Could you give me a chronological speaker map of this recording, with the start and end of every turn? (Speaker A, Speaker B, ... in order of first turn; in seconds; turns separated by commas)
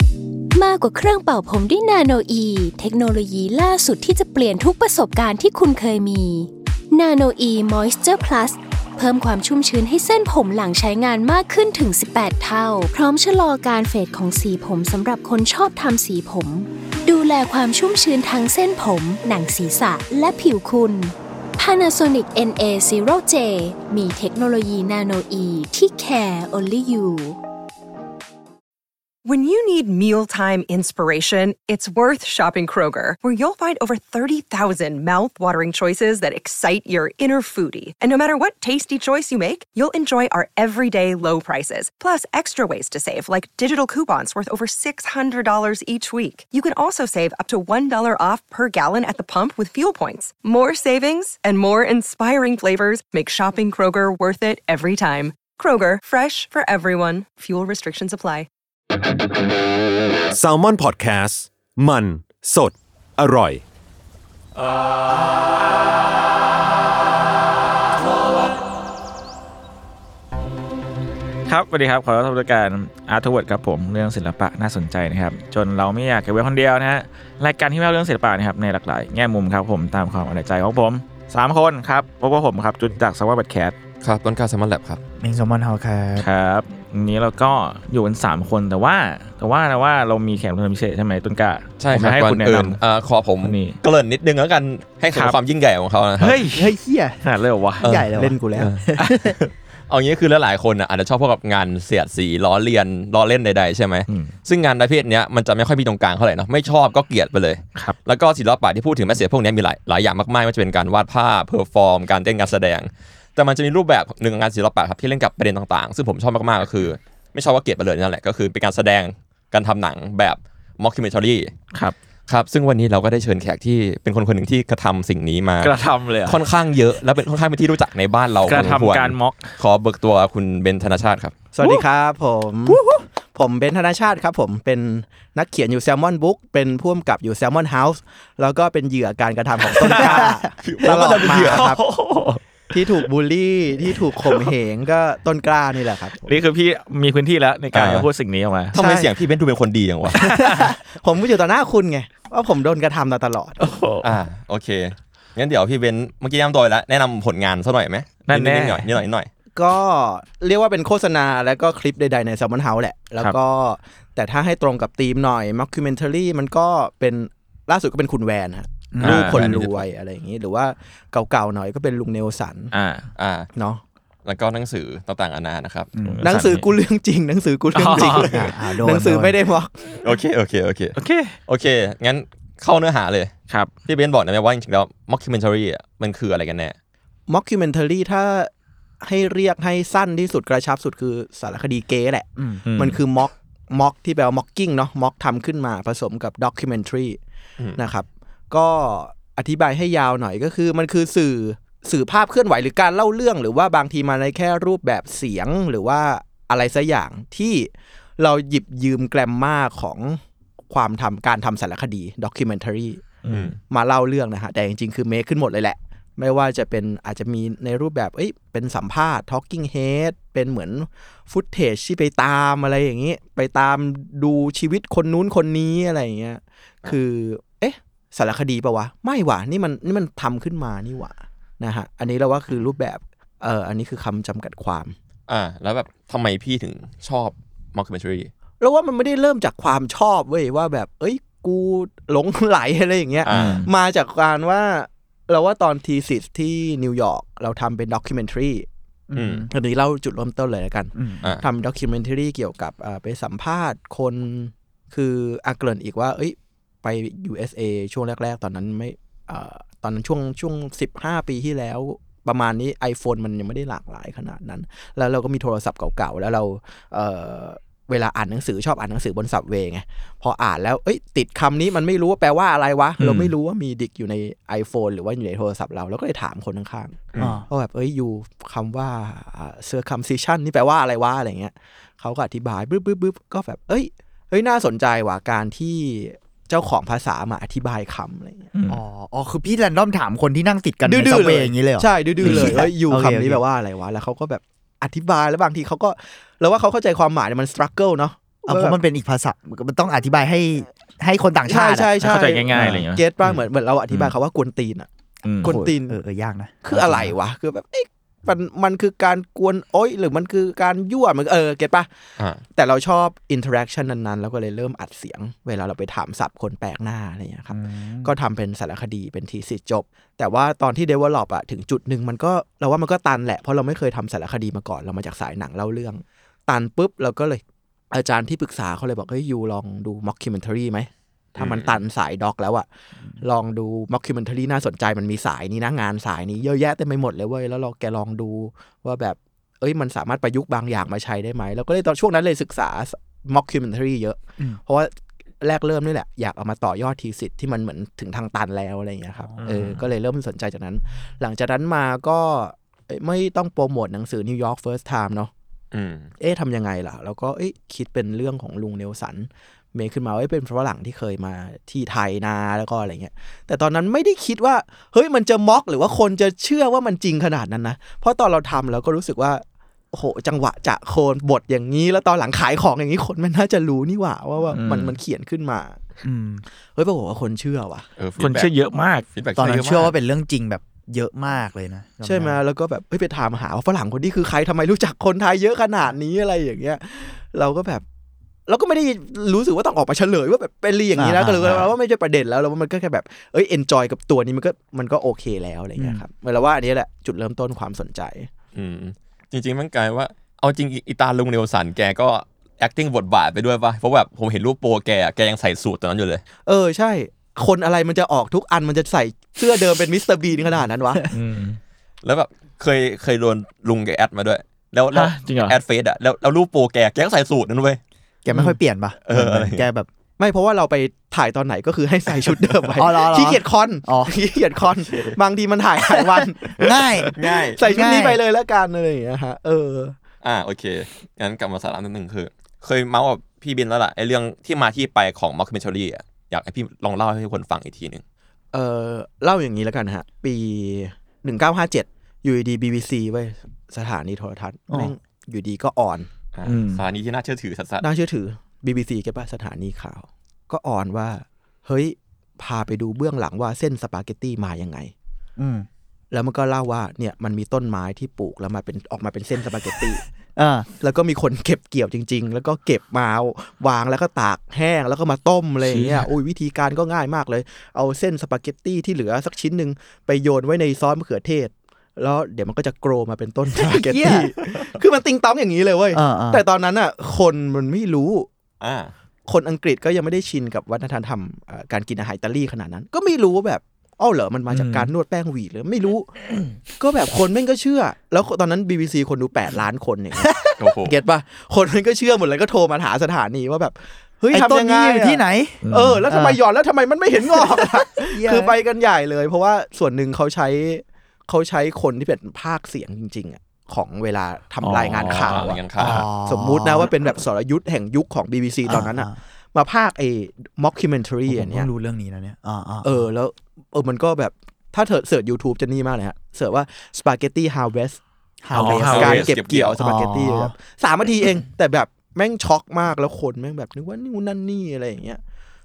Speaker A: 0.5-27.4, Speaker B: 29.2-58.5, Speaker C: 60.3-63.6, Speaker D: 71.5-83.8, Speaker E: 84.0-85.0, Speaker F: 85.2-86.3, Speaker D: 86.2-92.8, Speaker E: 91.8-96.4, Speaker D: 93.4-93.8, Speaker D: 96.2-98.3, Speaker F: 96.5-97.2, Speaker E: 97.8-121.5, Speaker F: 97.8-99.4, Speaker D: 99.0-99.3, Speaker D: 104.1-104.3, Speaker E: 122.3-131.4, Speaker D: 125.6-126.4, Speaker D: 128.5-129.5, Speaker G: 131.5-132.8, Speaker D: 132.7-133.0, Speaker G: 133.3-141.8, Speaker D: 139.7-140.4, Speaker F: 140.2-140.4, Speaker E: 140.6-141.8, Speaker D: 140.9-142.4, Speaker G: 142.7-146.3, Speaker D: 144.2-144.5, Speaker D: 146.2-148.7, Speaker E: 147.7-148.1, Speaker E: 148.7-150.3, Speaker G: 148.7-149.1, Speaker D: 150.2-150.7, Speaker G: 150.8-153.6, Speaker D: 153.6-154.1, Speaker E: 154.0-159.3, Speaker D: 158.3-158.9, Speaker G: 159.5-172.7, Speaker F: 168.9-169.4, Speaker D: 169.0-169.6, Speaker E: 169.0-169.8, Speaker D: 172.7-173.1, Speaker E: 173.2-173.5, Speaker G: 173.5-173.8, Speaker E: 174.2-175.9, Speaker F: 175.9-176.4, Speaker D: 176.0-176.7, Speaker G: 176.2-180.0, Speaker D: 177.7-178.4, Speaker F: 178.2-179.4, Speaker E: 180.0-180.9, Speaker D: 180.9-181.3, Speaker E: 181.5-183.3, Speaker E: 183.8-186.8, Speaker G: 187.3-188.5, Speaker G: 189.0-197.2, Speaker F: 192.4-192.6, Speaker D: 192.7-193.0, Speaker G: 197.8-213.0, Speaker D: 213.2-213.6, Speaker E: 213.3-213.5, Speaker G: 213.7-234.9, Speaker E: 235.3-238.3, Speaker G: 238.6-248.7, Speaker E: 243.2-243.7, Speaker D: 243.3-243.7, Speaker F: 249.1-249.5, Speaker E: 249.1-249.5, Speaker G: 249.5-288.5, Speaker F: 250.9-251.3, Speaker D: 273.0-273.3, Speaker E: 277.1-277.4, Speaker F: 277.2-277.4, Speaker D: 288.5-288.8, Speaker F: 288.7-293.4, Speaker G: 290.8-298.8, Speaker D: 292.2-292.6, Speaker F: 298.5-301.9, Speaker G: 301.5-304.9, Speaker D: 302.0-303.0, Speaker F: 302.5-302.9, Speaker D: 305.2-305.6, Speaker G: 305.4-306.0, Speaker F: 305.4-307.1, Speaker G: 306.6-311.9, Speaker E: 312.2-312.4, Speaker G: 312.5-332.6, Speaker F: 317.5-318.1, Speaker E: 331.4-331.8, Speaker G: 333.2-355.3, Speaker F: 349.2-349.5, Speaker D: 349.4-349.7, Speaker E: 355.7-356.1, Speaker G: 356.2-375.8, Speaker D: 374.5-375.0, Speaker F: 376.0-376.4, Speaker G: 376.7-377.8, Speaker E: 378.0-378.5, Speaker D: 378.2-379.1, Speaker E: 379.1-379.9, Speaker F: 379.4-382.4, Speaker G: 382.0-387.8, Speaker G: 388.5-398.3, Speaker F: 390.9-391.7, Speaker F: 395.8-396.0, Speaker E: 398.5-406.2, Speaker G: 406.4-411.1, Speaker D: 411.1-411.6, Speaker E: 412.0-417.8, Speaker D: 414.9-415.6, Speaker F: 418.2-419.9, Speaker E: 419.1-419.6, Speaker G: 420.2-429.9, Speaker F: 422.8-424.1, Speaker F: 425.9-428.2, Speaker E: 427.2-427.6, Speaker E: 430.2-438.0, Speaker G: 438.5-446.1, Speaker E: 446.3-447.8, Speaker D: 446.4-446.8, Speaker G: 447.8-454.9, Speaker F: 455.4-455.7, Speaker G: 456.1-460.0, Speaker F: 460.4-460.7, Speaker G: 460.8-478.3, Speaker D: 465.6-466.1, Speaker F: 473.5-474.3, Speaker F: 475.9-476.4, Speaker E: 478.6-478.9, Speaker G: 479.3-486.1, Speaker D: 484.5-484.9, Speaker G: 486.8-511.7, Speaker F: 490.2-490.6, Speaker E: 490.6-490.9, Speaker F: 494.3-496.4, Speaker D: 495.6-496.0, Speaker F: 497.2-498.5, Speaker D: 504.6-505.4, Speaker E: 505.0-506.1, Speaker F: 505.8-506.9, Speaker F: 508.6-509.1, Speaker F: 511.3-513.0, Speaker G: 512.8-518.0, Speaker F: 518.4-519.3, Speaker D: 518.5-519.2, Speaker E: 518.6-519.8, Speaker G: 518.6-525.2, Speaker F: 519.8-520.5